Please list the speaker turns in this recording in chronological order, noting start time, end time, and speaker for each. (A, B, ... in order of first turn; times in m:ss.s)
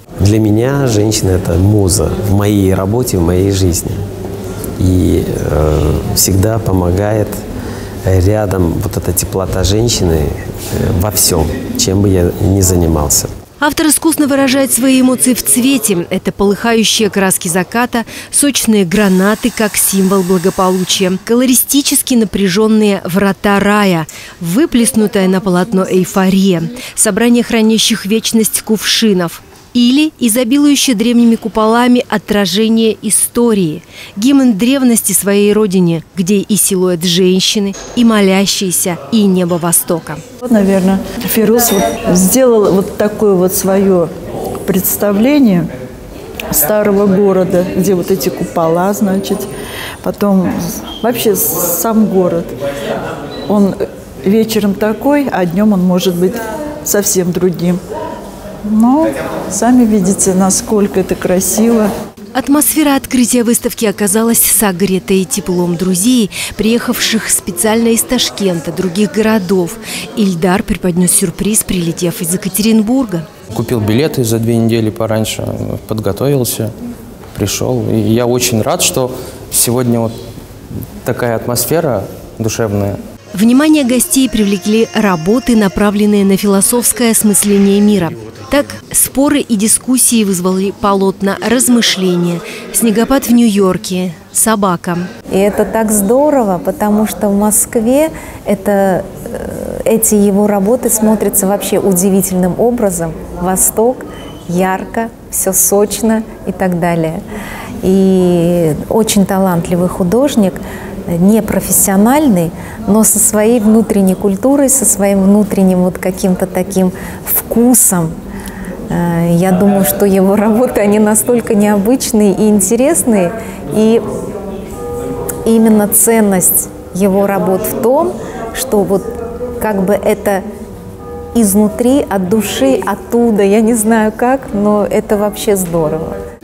0:00.2-0:04.0 A
0:04.8-0:07.4 A
0:08.1-0:13.3 A
0:13.6-0:40.2 B
0:40.4-0:44.1 C
0:44.6-0:45.7 C
0:46.5-0:49.5 C
0:50.0-0:52.6 C
0:53.5-0:57.8 C
0:58.7-1:01.9 C
1:02.3-1:13.3 B
1:13.5-1:16.7 D
1:17.4-1:20.2 D
1:21.0-1:23.0 D
1:23.3-1:35.1 B
1:35.3-1:47.2 E
1:47.8-1:58.1 E
1:58.9-2:04.0 E
2:05.5-2:09.1 E
2:09.6-2:10.4 E
2:11.4-2:16.2 E